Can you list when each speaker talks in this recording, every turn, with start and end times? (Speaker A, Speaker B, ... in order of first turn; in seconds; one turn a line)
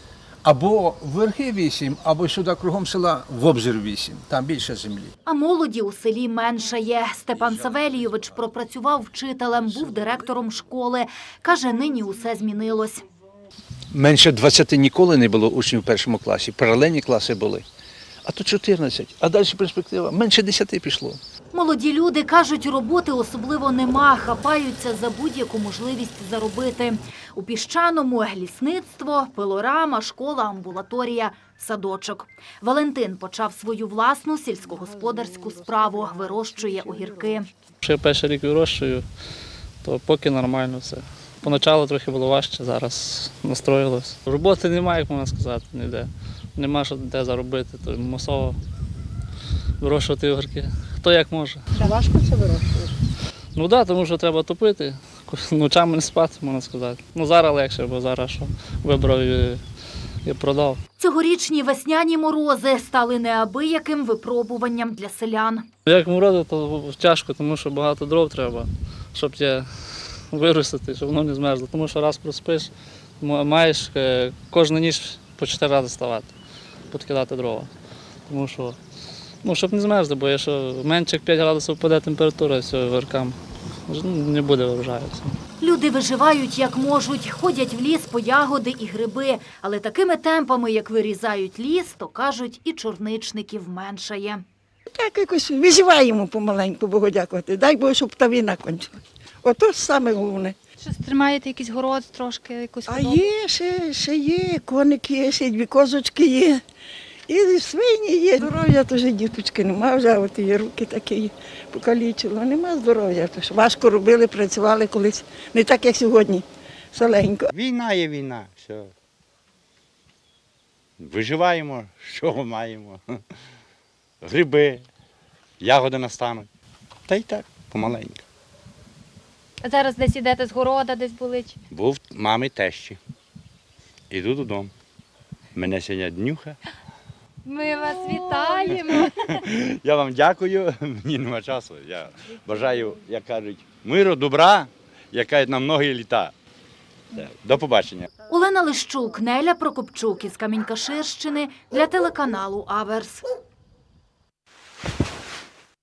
Speaker A: 0.4-5.1
Speaker B: 5.3-13.0
Speaker A: 13.9-17.6
Speaker A: 18.2-21.2
Speaker B: 21.5-37.5
Speaker C: 37.8-39.0
Speaker C: 39.8-48.6
Speaker C: 49.8-51.7
Speaker D: 51.8-52.9
Speaker C: 53.5-59.6
Speaker C: 60.2-60.8
Speaker B: 61.0-65.7
Speaker C: 65.9-69.7
Speaker C: 70.3-76.3
Speaker C: 76.9-77.7
Speaker C: 78.3-78.8
Speaker C: 79.4-85.3
Speaker B: 85.6-94.4
Speaker E: 94.9-98.9
Speaker E: 99.4-100.5
Speaker D: 100.8-103.3
Speaker E: 102.9-106.6
Speaker E: 107.3-117.5
Speaker F: 117.5-118.9
Speaker F: 121.0-123.0
Speaker F: 124.2-124.9
Speaker F: 125.6-126.5
Speaker F: 127.1-128.2
Speaker D: 129.6-131.6
Speaker F: 131.7-133.0
Speaker F: 134.1-134.7
Speaker F: 135.6-136.6
Speaker D: 137.4-139.1
Speaker F: 138.7-146.3
Speaker F: 147.1-148.1
Speaker B: 148.3-153.2